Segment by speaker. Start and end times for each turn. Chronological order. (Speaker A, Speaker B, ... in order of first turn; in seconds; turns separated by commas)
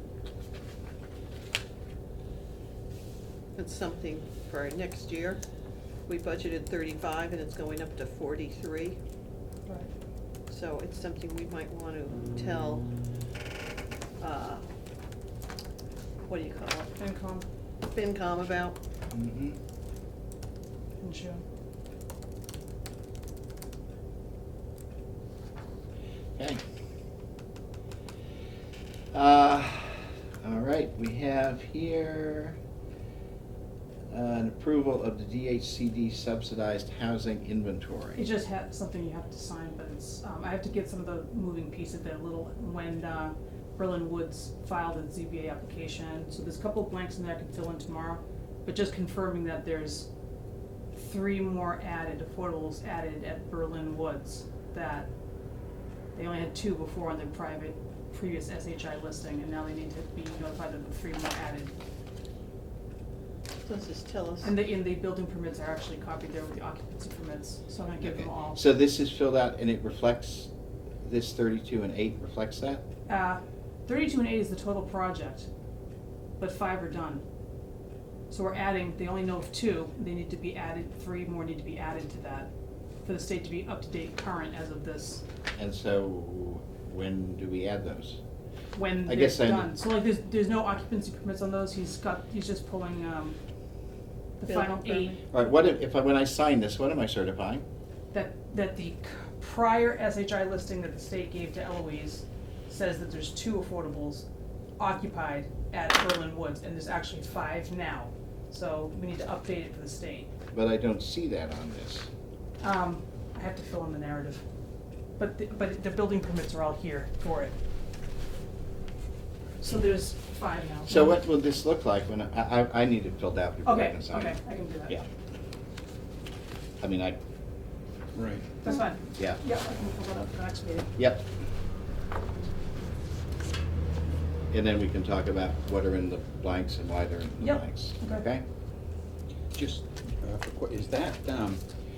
Speaker A: 3.5-5.4, Speaker A: 6.1-9.0, Speaker A: 10.5-12.9, Speaker A: 14.2-14.7, Speaker A: 16.2-16.9, Speaker B: 16.9-17.4, Speaker A: 17.8-18.8, Speaker C: 19.1-19.6, Speaker B: 21.0-21.4, Speaker C: 26.4-26.6, Speaker C: 29.1-32.6, Speaker C: 34.1-38.2, Speaker B: 38.1-50.1, Speaker B: 50.9-55.1, Speaker B: 56.1-61.7, Speaker A: 63.6-64.5, Speaker B: 64.4-68.6, Speaker C: 68.0-70.5, Speaker C: 71.0-72.8, Speaker B: 73.1-75.5, Speaker B: 76.4-77.2, Speaker B: 78.3-82.5, Speaker B: 83.0-85.2, Speaker C: 85.5-88.2, Speaker B: 88.7-93.4, Speaker C: 89.0-89.7, Speaker B: 94.4-95.2, Speaker A: 94.5-95.2, Speaker C: 95.3-97.6, Speaker B: 98.1-104.2, Speaker B: 104.8-110.3, Speaker C: 110.5-112.1, Speaker B: 112.6-114.4, Speaker B: 115.2-117.5, Speaker B: 119.6-121.2, Speaker C: 120.8-124.4, Speaker B: 123.6-125.0, Speaker C: 126.8-127.2, Speaker D: 128.1-128.5, Speaker B: 128.6-130.9, Speaker C: 129.2-129.4, Speaker C: 130.9-131.2, Speaker C: 134.5-138.4, Speaker B: 137.4-138.2, Speaker D: 139.5-141.6